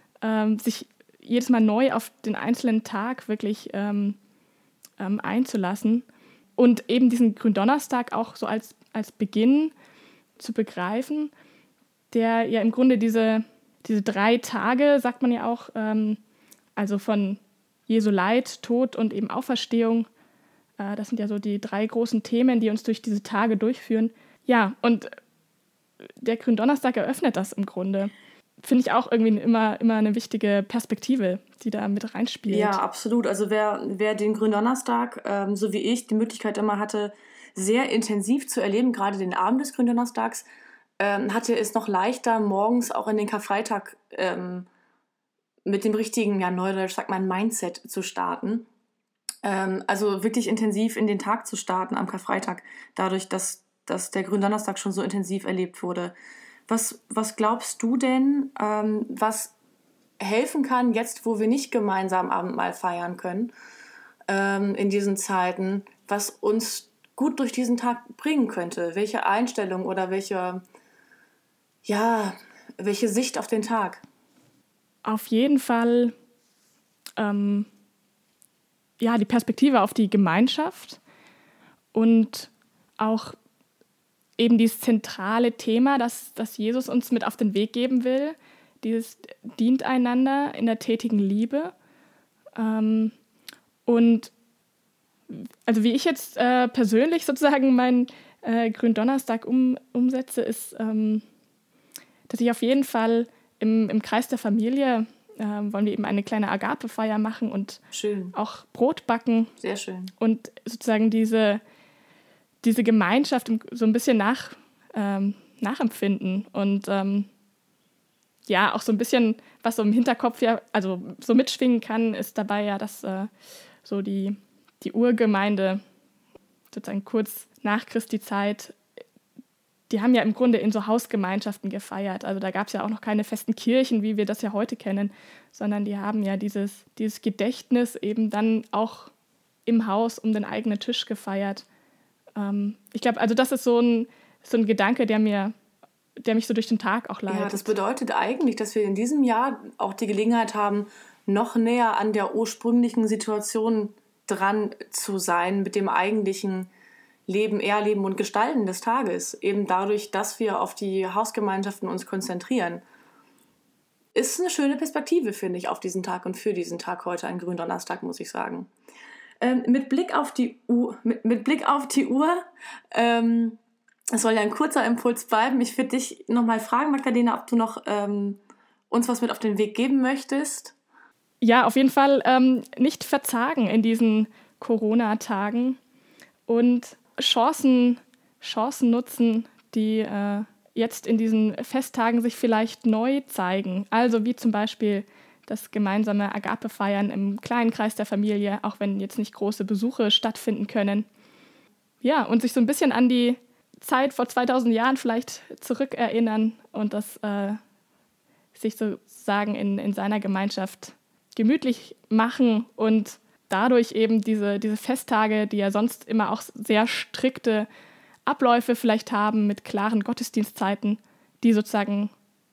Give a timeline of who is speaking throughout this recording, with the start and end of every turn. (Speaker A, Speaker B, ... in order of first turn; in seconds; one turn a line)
Speaker A: 0.2-4.2
Speaker A: 5.0-6.0
Speaker A: 6.6-9.7
Speaker A: 10.4-11.3
Speaker A: 12.1-16.2
Speaker A: 16.8-20.1
Speaker A: 20.8-25.1
Speaker A: 26.2-28.1
Speaker A: 28.6-32.8
Speaker B: 32.5-40.5
Speaker B: 41.0-44.7
Speaker B: 45.6-48.7
Speaker B: 49.4-56.1
Speaker B: 56.7-59.5
Speaker B: 60.2-63.5
Speaker B: 64.3-70.6
Speaker B: 71.8-74.0
Speaker A: 75.0-76.1
Speaker A: 77.2-77.7
Speaker A: 79.0-81.0
Speaker A: 81.9-83.4
Speaker A: 84.4-91.7
Speaker A: 92.6-93.1
Speaker A: 93.9-94.3
Speaker A: 95.3-101.2
Speaker A: 102.3-107.8
Speaker B: 107.9-108.3
Speaker A: 108.3-109.5
Speaker B: 109.6-110.1
Speaker A: 110.2-111.6
Speaker A: 112.6-117.3
Speaker A: 118.5-123.3
Speaker A: 123.8-125.8
Speaker A: 126.7-128.8
Speaker A: 129.9-139.1
Speaker A: 139.7-141.7
Speaker A: 142.4-145.5
Speaker A: 146.2-147.8
Speaker B: 147.3-156.7
Speaker B: 157.3-162.8
Speaker B: 164.2-168.7
Speaker B: 169.4-173.6
Speaker B: 174.2-178.4
Speaker B: 178.9-180.8
Speaker A: 181.4-185.8
Speaker A: 186.5-201.1
Speaker A: 202.0-207.6
Speaker A: 208.6-217.7
Speaker A: 218.3-222.1